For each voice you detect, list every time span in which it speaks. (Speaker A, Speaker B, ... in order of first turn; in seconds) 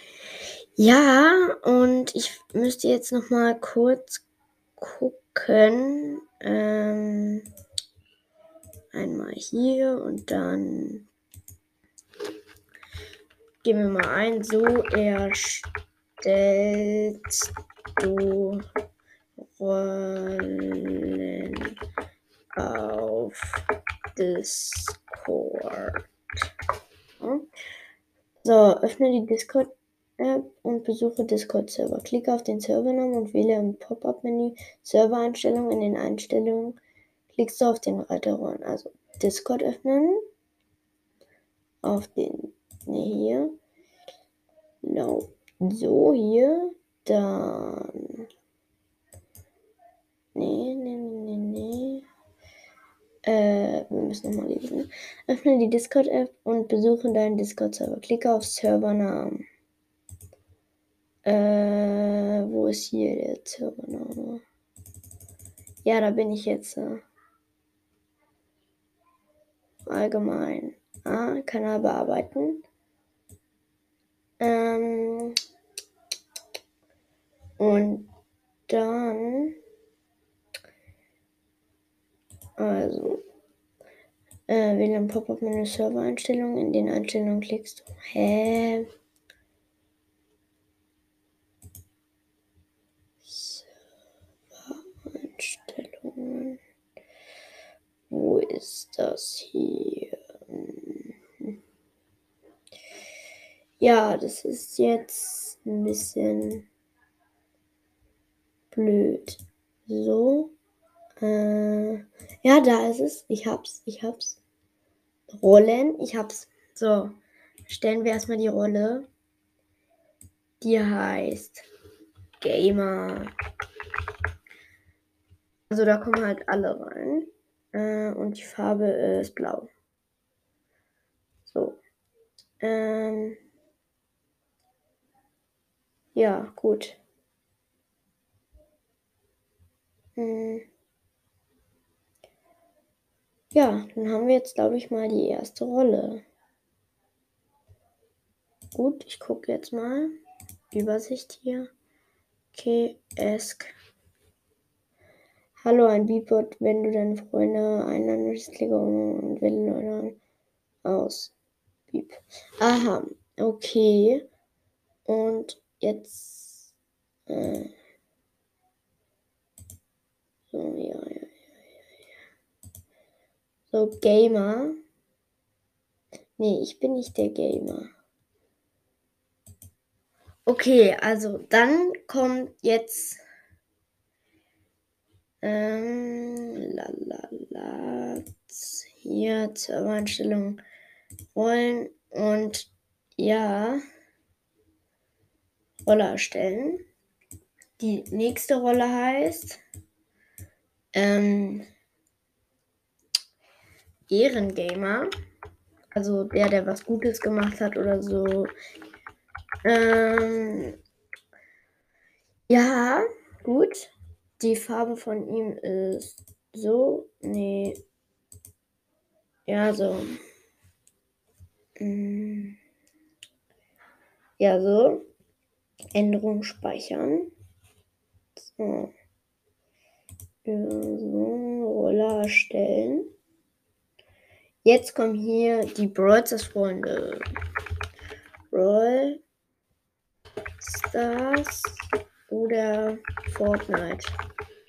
Speaker A: 0.8-4.2, 4.8-7.5, 8.9-11.1, 13.6-15.7, 16.2-18.6, 19.4-21.8, 22.6-23.6, 24.1-26.1, 27.2-27.4, 28.4-36.8, 37.3-40.2, 41.8-43.5, 44.8-48.2, 50.3-52.0, 53.2-59.4, 61.2-64.4, 65.8-67.0, 69.8-72.6, 74.4-75.4, 77.6-78.1, 78.7-79.5, 82.6-83.2, 84.5-88.9, 93.2-93.7, 94.5-96.6, 98.1-101.5, 103.8-106.7, 108.7-110.5, 111.2-114.4, 115.3-119.1, 120.6-121.6, 122.4-123.3, 125.7-129.7, 131.4-131.8, 132.6-133.4, 136.1-137.0, 140.2-140.6, 143.5-146.2, 148.7-150.1, 150.7-151.7, 152.5-153.7, 155.6-160.2, 160.8-161.3, 161.9-164.2, 165.1-166.7, 167.3-167.7, 170.5-171.4, 173.7-174.8, 176.4-177.9, 180.4-183.2, 185.4-190.6, 191.3-193.8, 195.8-196.8, 197.8-199.6, 200.9-201.7, 204.1-205.1, 205.9-208.5, 209.6-210.7, 212.5-217.8, 219.5-220.2, 221.8-222.6, 224.4-225.0, 225.9-227.3, 228.5-228.9, 230.4-233.1, 234.6-237.2, 238.5-239.2, 240.6-244.1